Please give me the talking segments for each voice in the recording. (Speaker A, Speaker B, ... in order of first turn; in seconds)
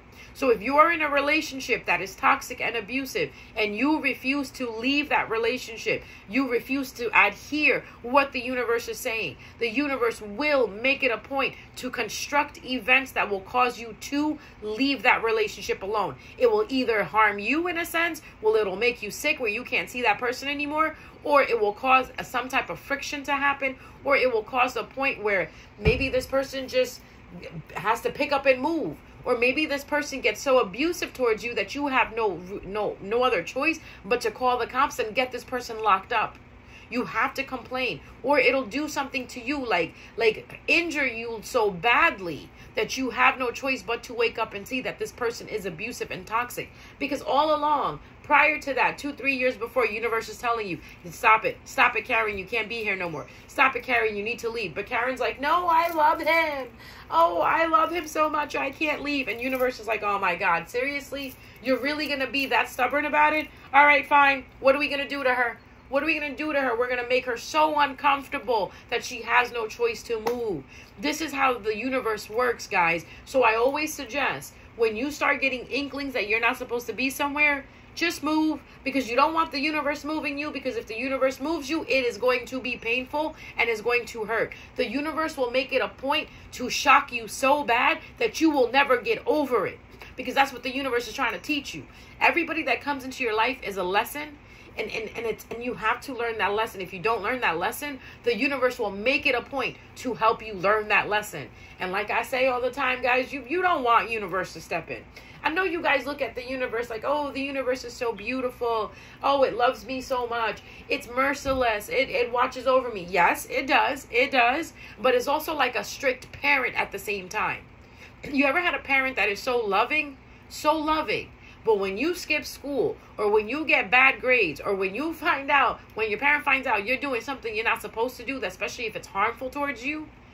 Speaker A: 0.3-117.7, 118.2-130.1